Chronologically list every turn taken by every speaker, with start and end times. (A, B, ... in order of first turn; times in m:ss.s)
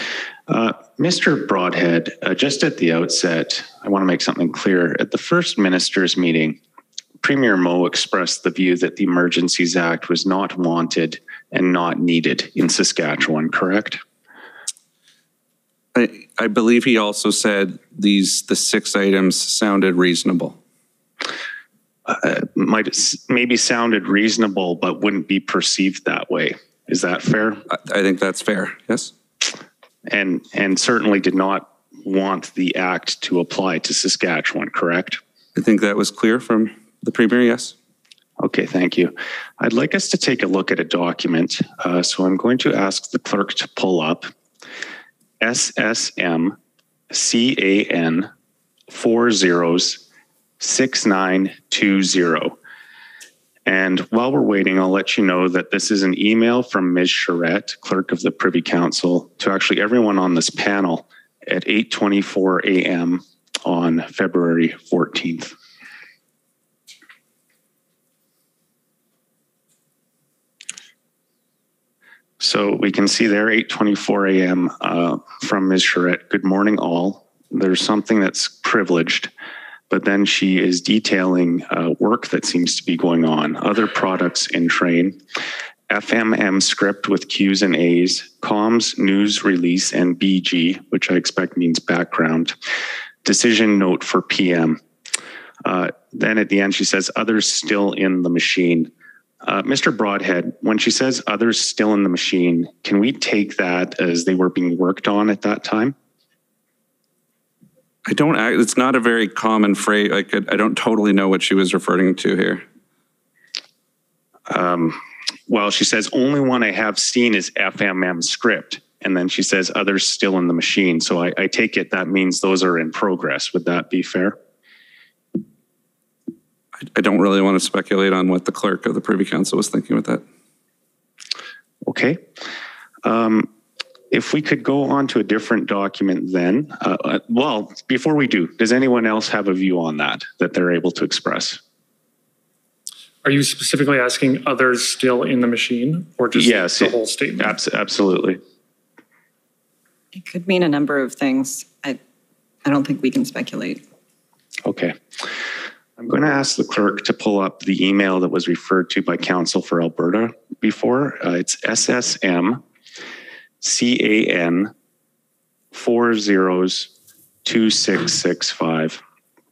0:00.5-0:06.6 A
0:07.2-0:14.0 A
0:15.9-0:20.6 B
0:22.1-0:27.6 A
0:27.7-0:29.1 B
0:30.1-0:35.2 A
0:35.5-0:37.7 B
0:38.4-0:44.3 A
0:45.4-0:46.6 A
0:47.1-0:48.3 A
0:48.9-0:50.0 A
0:50.6-0:52.6 A
0:53.6-1:05.5 A
1:12.4-1:19.3 A
1:19.9-1:25.2 A
1:25.9-1:32.5 A
1:33.2-1:34.8 A
1:35.6-1:38.9 A
1:39.4-1:45.9 A
1:48.0-1:52.6 B
1:54.5-1:55.0 A
1:55.5-2:04.4 A
2:06.9-2:10.2 B
2:11.8-2:12.2 A
2:13.0-2:13.5 A
2:14.1-2:21.6 A
2:23.2-2:27.6 C
2:26.3-2:28.4 A
2:30.1-2:32.0 D
2:32.6-2:33.8 D
2:34.6-2:34.9 A
2:36.0-2:42.6 A
2:43.6-2:44.7 A
2:45.7-2:46.9 A
2:47.4-2:49.0 A